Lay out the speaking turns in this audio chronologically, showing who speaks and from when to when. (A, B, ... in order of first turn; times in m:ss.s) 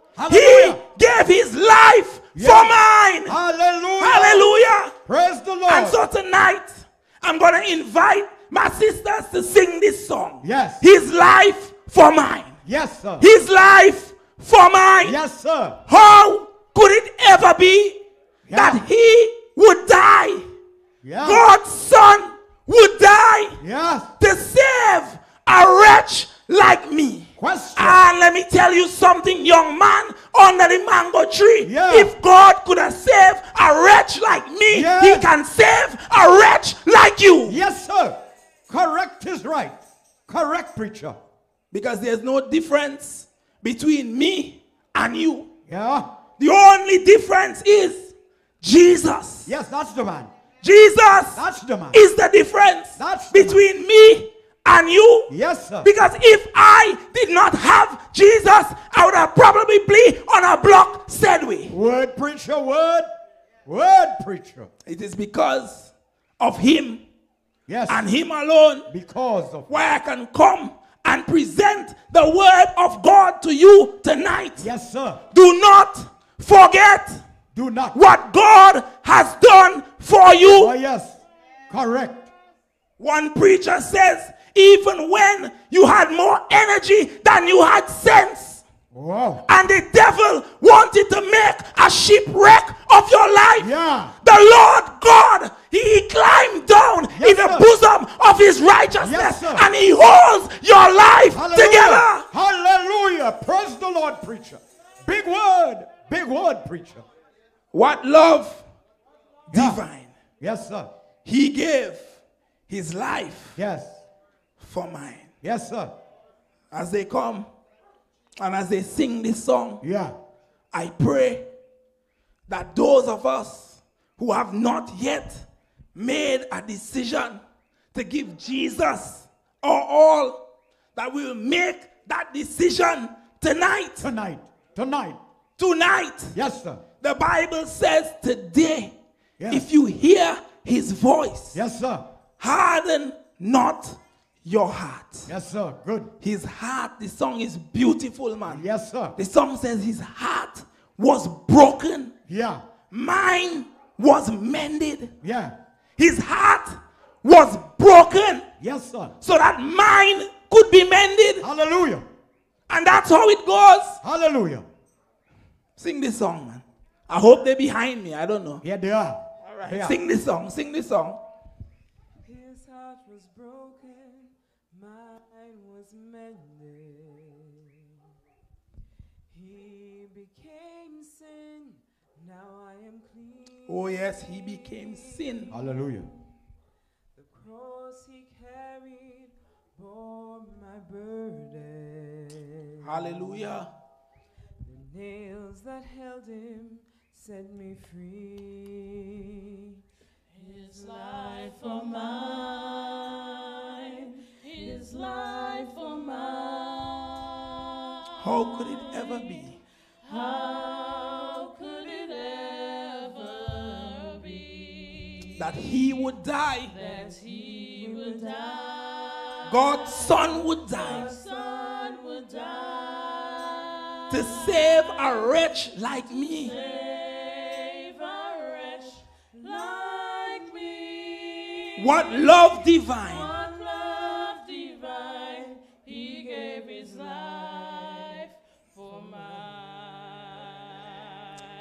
0:00.2-0:00.8 A
0:00.3-0:03.4 B
0:02.4-0:02.7 A
0:03.2-0:04.5 A
0:04.0-0:04.9 B
0:05.0-0:06.0 A
0:05.7-0:12.6 B
0:10.4-0:10.8 A
0:12.6-0:13.2 A
0:13.2-0:15.2 B
0:15.0-0:15.8 A
0:15.9-0:18.0 B
0:18.5-0:18.8 A
0:18.5-0:20.5 B
0:21.0-0:21.4 A
0:21.2-0:23.6 B
0:23.6-0:24.1 A
0:24.2-0:37.6 B
0:27.4-0:28.0 A
0:31.6-0:32.1 A
0:34.7-0:35.3 A
0:37.4-0:41.2 A
0:41.7-0:45.5 B
0:45.7-0:46.1 A
0:46.4-0:49.5 B
0:49.4-0:50.3 A
0:50.6-0:51.4 B
0:51.3-0:52.0 A
0:51.9-0:55.3 B
0:53.0-0:53.6 A
0:55.3-0:55.9 A
0:55.8-1:01.7 B
1:01.7-1:03.1 A
1:03.6-1:04.7 A
1:04.9-1:07.0 B
1:07.7-1:08.1 A
1:07.9-1:08.9 B
1:08.9-1:09.7 A
1:09.7-1:14.7 B
1:14.6-1:15.2 A
1:15.3-1:17.2 B
1:17.5-1:18.0 A
1:17.9-1:20.7 B
1:20.4-1:22.3 A
1:23.0-1:28.6 B
1:28.9-1:29.4 A
1:29.5-1:33.7 B
1:33.6-1:34.1 A
1:34.2-1:42.3 B
1:37.1-1:37.7 A
1:39.0-1:39.7 A
1:41.3-1:47.0 A
1:47.7-1:48.6 B
1:49.5-1:50.1 B
1:49.5-1:49.8 A
1:50.4-1:50.9 A
1:51.2-1:53.6 B
1:53.6-1:54.0 A
1:54.6-1:55.3 B
1:55.4-1:55.9 A
1:56.7-1:57.5 B
1:58.4-1:59.8 B
1:59.8-2:00.1 A
2:00.7-2:01.5 B
2:02.5-2:07.4 B
2:07.9-2:10.4 B
2:10.9-2:14.1 B
2:14.0-2:15.2 A
2:15.6-2:16.4 B
2:16.3-2:16.8 A
2:17.0-2:18.9 B
2:19.4-2:19.7 A
2:19.5-2:21.6 B
2:21.5-2:22.0 A
2:22.4-2:25.3 B
2:25.3-2:26.1 A
2:26.2-2:28.6 B
2:28.5-2:29.2 A
2:29.2-2:32.1 B
2:32.3-2:32.6 A
2:32.9-2:35.1 B
2:35.2-2:35.6 A
2:36.0-2:38.4 B
2:38.6-2:39.2 A
2:39.2-2:41.4 B
2:41.4-2:42.0 A
2:42.7-2:44.0 B
2:44.0-2:44.7 A
2:45.8-2:48.6 B
2:48.6-2:50.0 A
2:49.4-2:51.2 B
2:52.2-2:57.5 C
2:59.3-3:05.6 C
3:03.7-3:05.5 B
3:05.5-3:06.1 A
3:07.1-3:13.2 C
3:12.8-3:13.7 B
3:14.6-3:19.5 C
3:20.3-3:27.6 D
3:28.2-3:29.6 B
3:28.4-3:29.2 D
3:30.0-3:35.3 D
3:35.4-3:36.7 B
3:36.7-3:45.3 D
3:36.8-3:38.5 C
3:39.5-3:41.1 B
3:40.8-3:42.0 C
3:44.1-3:46.5 B
3:46.3-3:52.2 D
3:46.5-3:47.0 C
3:49.5-3:50.7 C
3:51.8-3:53.3 B
3:53.1-4:01.5 D
3:53.5-3:54.3 C
3:57.1-3:58.2 C
3:58.9-3:59.6 C